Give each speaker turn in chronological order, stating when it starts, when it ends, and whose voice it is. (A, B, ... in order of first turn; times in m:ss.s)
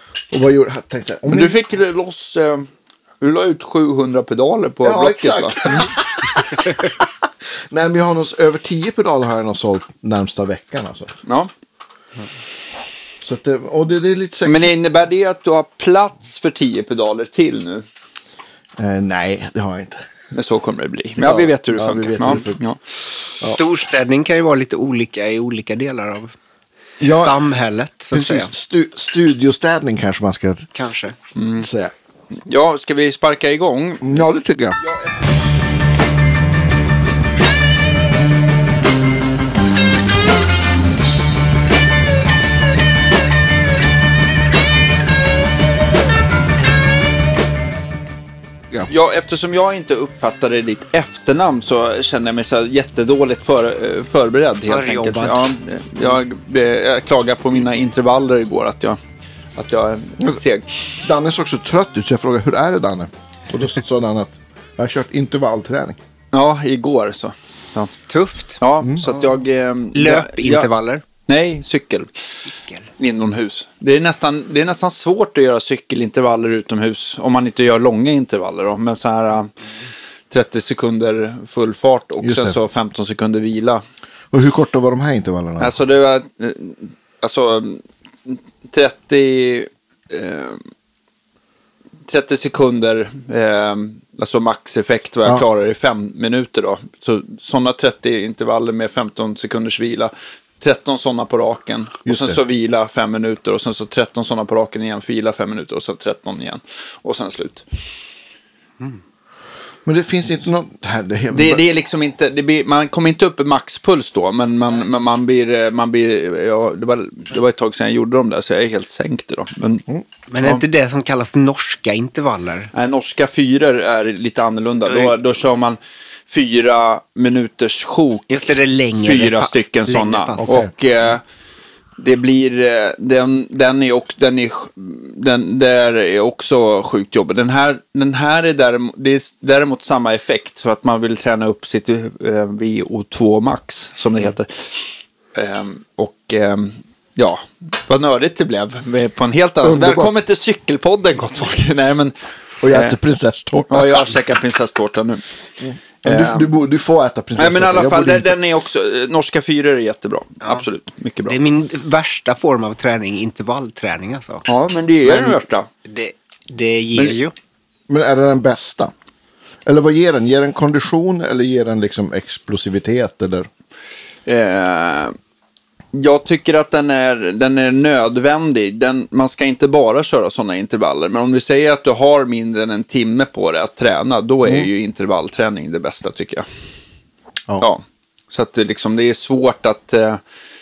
0:00.3-0:01.6 A
0:01.3-0:02.7 B
0:03.2-0:05.9 B
0:04.8-0:11.2 A
0:13.2-0:14.7 A
0:14.4-0:17.8 B
0:18.8-0:20.1 A
0:20.3-0:22.8 B
0:21.2-0:22.6 A
0:23.4-0:26.3 C
0:27.0-0:27.4 A
0:27.1-0:28.5 C
0:28.1-0:30.7 A
0:30.7-0:31.2 C
0:31.4-0:31.7 B
0:31.6-0:31.9 A
0:32.5-0:34.3 B
0:34.0-0:34.8 A
0:34.8-0:35.2 B
0:48.9-0:59.0 B
0:54.7-0:55.4 C
0:59.6-1:00.8 B
1:01.0-1:06.0 A
1:06.3-1:07.9 B
1:08.1-1:09.2 C
1:08.6-1:10.7 B
1:09.9-1:11.0 C
1:11.3-1:19.7 B
1:20.3-1:23.8 B
1:22.2-1:22.6 A
1:24.3-1:25.7 A
1:25.6-1:30.6 B
1:32.1-1:47.7 B
1:42.0-1:42.4 A
1:49.8-1:51.6 A
1:51.3-1:59.8 B
2:00.3-2:02.7 C
2:02.7-2:08.4 B
2:04.9-2:05.2 C
2:08.3-2:10.6 C
2:09.0-2:11.2 B
2:10.4-2:10.7 A
2:12.0-2:33.0 B
2:29.6-2:30.1 A
2:32.6-2:34.2 A
2:33.7-2:35.3 B
2:35.6-2:38.4 A
2:36.0-2:36.5 B
2:37.4-2:41.4 B
2:41.2-2:44.4 C
2:44.5-2:45.7 B
2:45.0-2:47.3 C
2:47.9-2:48.9 A
2:49.6-2:53.5 A
2:54.3-2:55.2 B
2:55.9-3:06.5 B
3:04.4-3:04.7 A
3:07.6-3:10.2 B